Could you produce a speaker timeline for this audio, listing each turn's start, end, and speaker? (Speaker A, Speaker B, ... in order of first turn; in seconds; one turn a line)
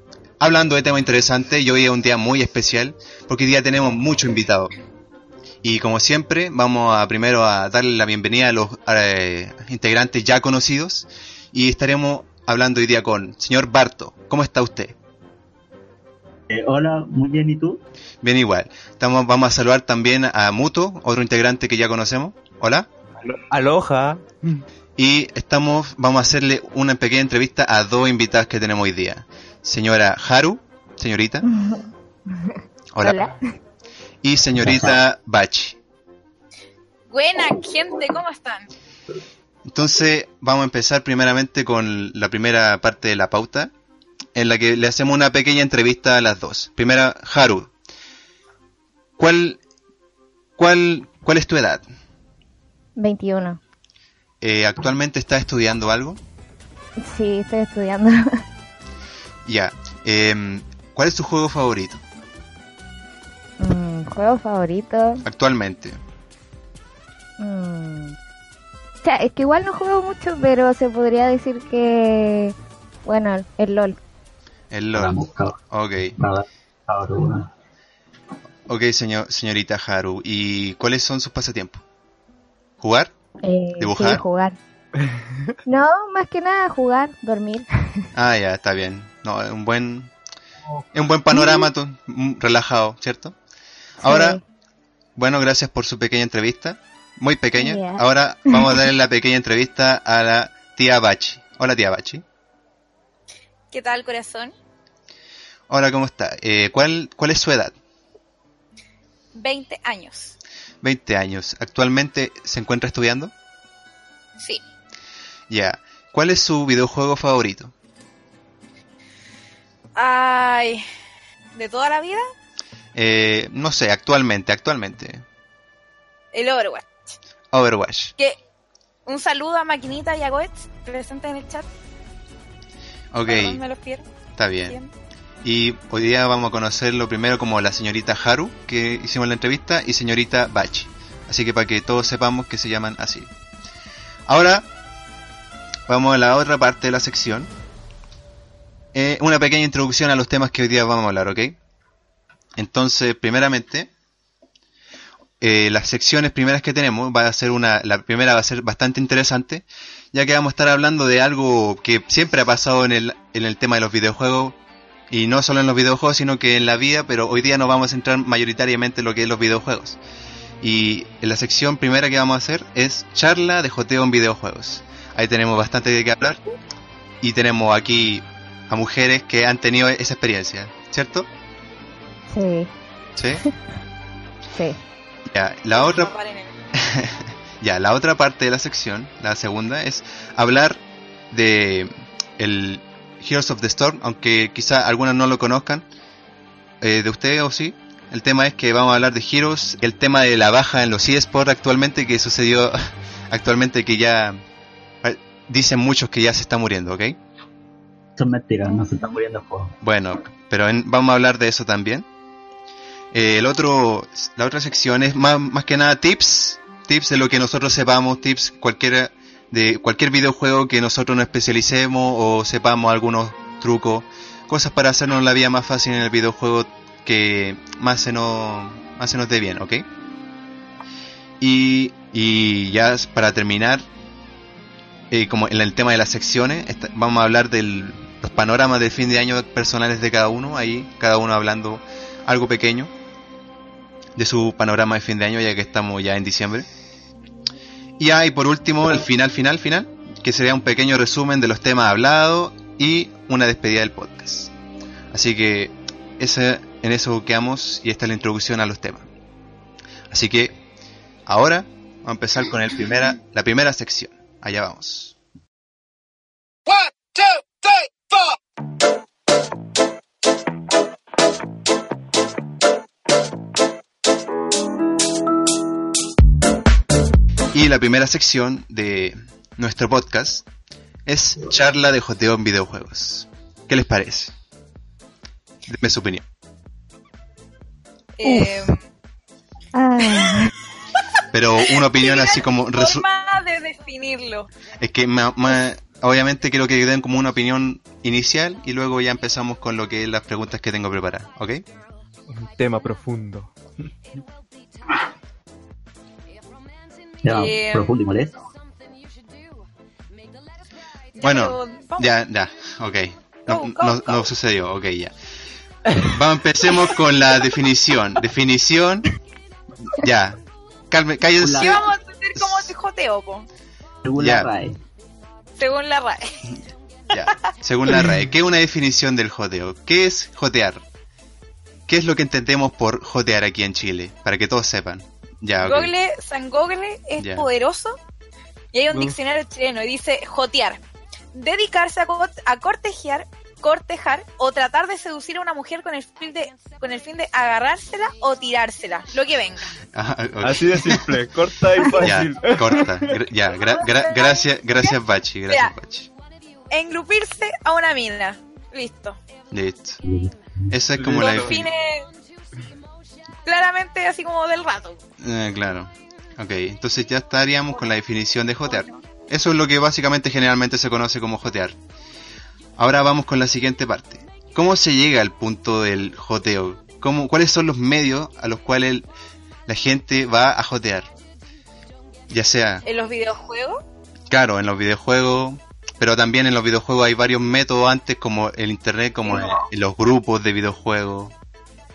Speaker A: 0.4-4.7
Speaker A: 5.6-14.9
Speaker B: 16.5-17.8
Speaker A: 18.2-22.9
Speaker C: 23.3-24.6
Speaker A: 25.0-31.5
Speaker D: 31.5-33.5
Speaker A: 32.9-33.3
Speaker A: 34.2-35.8
Speaker B: 34.5-35.0
Speaker E: 37.1-38.7
Speaker A: 39.7-43.7
Speaker A: 44.4-47.7
Speaker A: 49.2-49.6
Speaker A: 50.6-51.8
Speaker D: 53.0-53.6
Speaker A: 54.4-56.2
Speaker D: 57.0-58.4
Speaker A: 59.5-62.0
Speaker D: 63.6-65.2
Speaker A: 65.2-66.0
Speaker D: 67.4-68.2
Speaker D: 69.0-72.5
Speaker D: 73.0-74.0
Speaker A: 74.7-76.2
Speaker B: 74.9-75.6
Speaker B: 76.2-77.5
Speaker A: 78.7-81.8
Speaker A: 82.8-83.1
Speaker D: 83.4-84.6
Speaker A: 83.8-84.2
Speaker C: 85.0-85.6
Speaker D: 85.7-88.0
Speaker A: 88.1-90.1
Speaker A: 90.9-93.3
Speaker D: 91.3-91.7
Speaker A: 94.0-94.4
Speaker D: 94.0-94.4
Speaker A: 95.2-102.2
Speaker D: 97.6-98.8
Speaker E: 103.7-104.5
Speaker A: 105.7-107.7
Speaker E: 109.3-110.3
Speaker A: 110.8-113.3
Speaker A: 115.5-117.7
Speaker E: 120.0-120.8
Speaker E: 121.5-122.2
Speaker A: 123.0-125.2
Speaker E: 126.3-127.0
Speaker A: 127.5-128.1
Speaker E: 129.1-131.7
Speaker A: 133.1-133.6
Speaker E: 133.3-134.1
Speaker A: 134.4-134.8
Speaker A: 135.4-143.3
Speaker A: 144.3-144.7
Speaker A: 145.9-147.5
Speaker A: 148.9-151.6
Speaker A: 152.6-153.9
Speaker A: 155.4-164.6
Speaker A: 165.1-170.0
Speaker A: 170.6-176.4
Speaker A: 177.2-181.3
Speaker D: 182.3-182.7
Speaker A: 183.2-183.4
Speaker D: 184.5-184.8
Speaker A: 185.3-186.1
Speaker E: 185.7-186.5
Speaker A: 186.7-190.8
Speaker A: 191.3-195.8
Speaker A: 196.8-204.4
Speaker A: 205.0-207.2
Speaker B: 208.2-209.8
Speaker A: 209.8-212.1
Speaker A: 213.1-229.8
Speaker A: 231.4-233.8
Speaker A: 235.1-242.9
Speaker A: 244.2-246.7
Speaker A: 248.0-254.5
Speaker A: 255.1-259.1
Speaker A: 260.1-260.6
Speaker A: 261.3-265.1
Speaker A: 277.5-280.4
Speaker A: 281.1-284.3
Speaker A: 285.7-286.2
Speaker E: 288.2-288.8
Speaker D: 288.2-288.5
Speaker D: 289.7-290.5
Speaker E: 290.0-290.4
Speaker A: 291.3-293.1
Speaker E: 291.7-294.5
Speaker A: 294.8-301.6
Speaker C: 302.3-303.5
Speaker B: 307.2-308.5
Speaker E: 307.3-307.9
Speaker E: 311.2-312.1
Speaker A: 311.2-315.1
Speaker E: 313.5-314.3
Speaker A: 316.0-319.1
Speaker A: 319.9-322.7
Speaker B: 321.4-321.8
Speaker E: 321.5-323.5
Speaker B: 324.0-324.8
Speaker A: 324.2-324.5
Speaker E: 325.6-326.5
Speaker A: 327.1-330.8
Speaker A: 331.9-335.9
Speaker E: 335.6-338.0
Speaker A: 337.2-337.5
Speaker E: 338.7-340.8
Speaker E: 341.3-349.7
Speaker A: 349.9-351.2
Speaker C: 350.4-353.1
Speaker A: 351.9-356.1
Speaker E: 353.6-355.0
Speaker E: 355.5-355.7
Speaker E: 356.7-359.2
Speaker A: 359.5-360.0
Speaker B: 360.0-360.4
Speaker A: 360.7-361.7
Speaker C: 361.0-361.6
Speaker E: 361.2-362.1
Speaker E: 363.4-365.0
Speaker A: 365.2-371.8
Speaker E: 368.6-369.0
Speaker A: 372.8-379.1
Speaker A: 379.7-381.1
Speaker A: 382.3-382.8
Speaker E: 382.8-383.8
Speaker A: 384.3-391.3